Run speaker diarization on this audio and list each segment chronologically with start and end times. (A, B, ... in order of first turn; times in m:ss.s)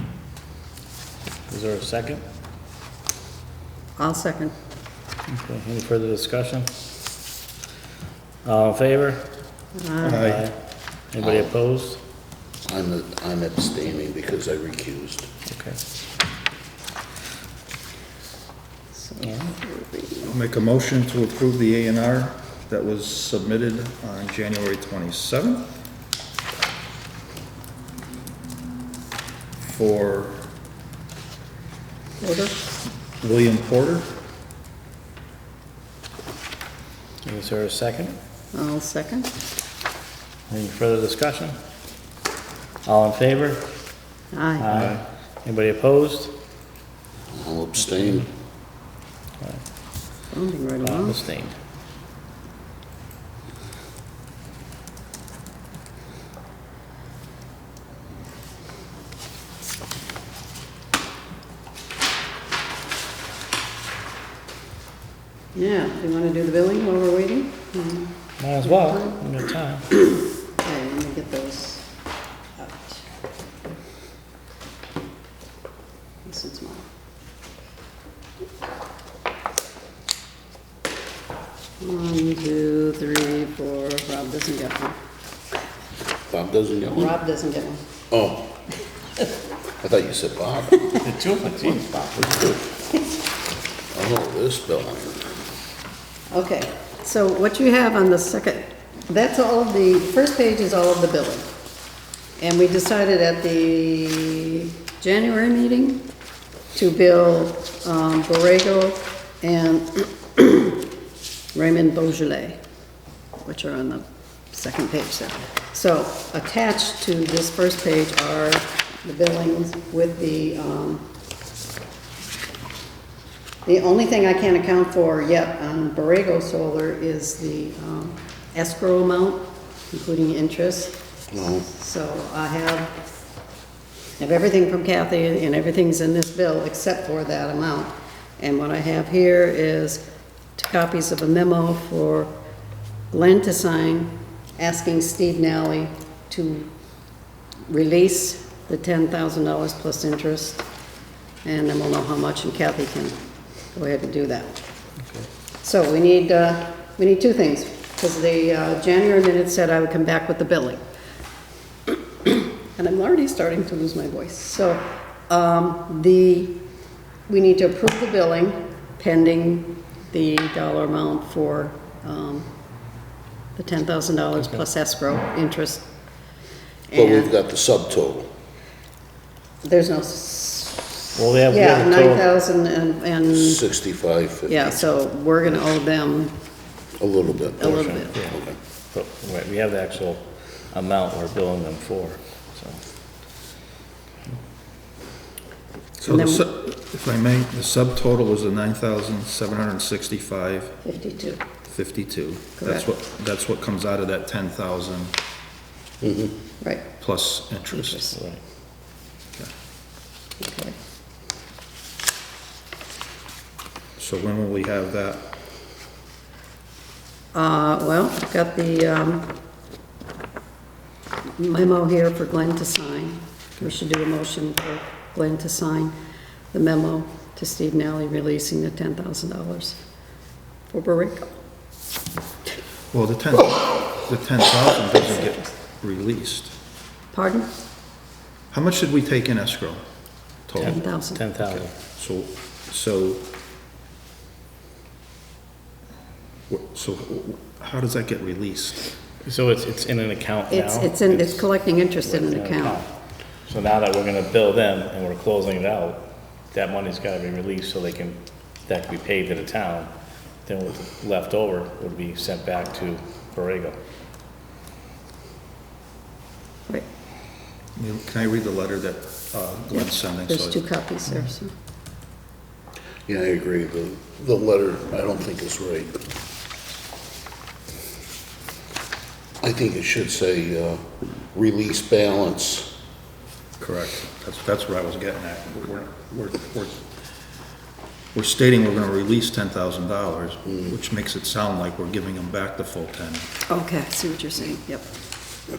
0:01.5-0:02.2 A
0:04.0-0:04.5 B
0:05.3-0:06.7 A
0:08.4-0:09.2 A
0:09.7-0:10.4 B
0:10.0-0:10.5 C
0:10.1-0:10.5 A
0:11.1-0:12.0 A
0:11.2-0:11.5 D
0:12.6-0:15.3 D
0:15.5-0:15.8 A
0:18.9-0:20.3 B
0:19.2-0:19.5 A
0:20.2-0:25.8 C
0:29.6-0:30.5 C
0:32.2-0:32.6 B
0:33.2-0:34.2 C
0:37.2-0:38.2 A
0:38.5-0:39.3 B
0:40.5-0:41.5 A
0:42.8-0:43.7 A
0:44.3-0:44.7 B
0:44.6-0:46.4 A
0:47.3-0:48.3 D
0:50.3-0:51.2 B
0:50.8-0:51.5 A
1:05.5-1:09.2 B
1:08.4-1:09.9 A
1:10.6-1:11.9 B
1:12.6-1:13.0 B
1:16.2-1:16.8 B
1:21.8-1:25.0 B
1:26.3-1:27.1 D
1:26.9-1:27.8 B
1:28.1-1:28.6 D
1:29.8-1:30.9 D
1:31.0-1:32.0 A
1:33.9-1:35.3 D
1:36.3-1:41.5 B
1:42.4-1:46.1 B
1:46.7-1:50.9 B
1:51.5-1:52.6 B
1:53.4-2:01.1 B
2:03.6-2:13.0 B
2:11.3-2:11.6 D
2:14.2-2:20.0 B
2:20.6-2:22.3 B
2:23.1-2:26.7 B
2:27.7-2:30.6 B
2:31.4-2:33.2 B
2:33.7-2:34.6 B
2:35.6-2:40.8 B
2:41.9-2:46.6 B
2:47.3-2:52.5 B
2:53.6-2:55.9 B
2:56.9-2:57.3 B
2:56.9-2:58.3 D
2:59.6-3:03.6 B
3:01.1-3:02.2 A
3:03.3-3:04.9 D
3:04.5-3:06.4 B
3:07.0-3:08.6 D
3:07.6-3:08.1 B
3:07.6-3:08.1 A
3:08.9-3:12.8 A
3:16.0-3:20.8 C
3:16.1-3:16.4 B
3:20.8-3:21.4 B
3:21.6-3:25.2 C
3:22.6-3:22.8 B
3:26.0-3:26.4 D
3:26.6-3:26.9 B
3:27.0-3:28.1 C
3:27.7-3:28.1 B
3:28.1-3:28.4 A
3:30.4-3:30.8 B
3:34.0-3:35.3 C
3:37.3-3:39.4 B
3:41.4-3:45.9 B
3:46.5-3:49.8 B
3:50.7-3:51.4 B
3:52.9-3:56.5 C
3:55.0-3:55.5 B
3:57.1-3:57.5 B
3:58.5-3:59.8 C
4:00.4-4:00.8 C
4:00.6-4:01.2 B
4:00.6-4:01.7 A
4:01.4-4:03.3 C
4:06.5-4:08.8 C
4:09.2-4:12.9 A
4:10.5-4:12.8 B
4:13.4-4:19.9 A
4:20.4-4:23.8 A
4:27.8-4:30.6 C
4:29.7-4:31.5 B
4:33.1-4:36.0 D
4:39.4-4:42.7 D
4:43.6-4:46.9 C
4:48.1-4:53.3 C
4:53.5-4:54.9 B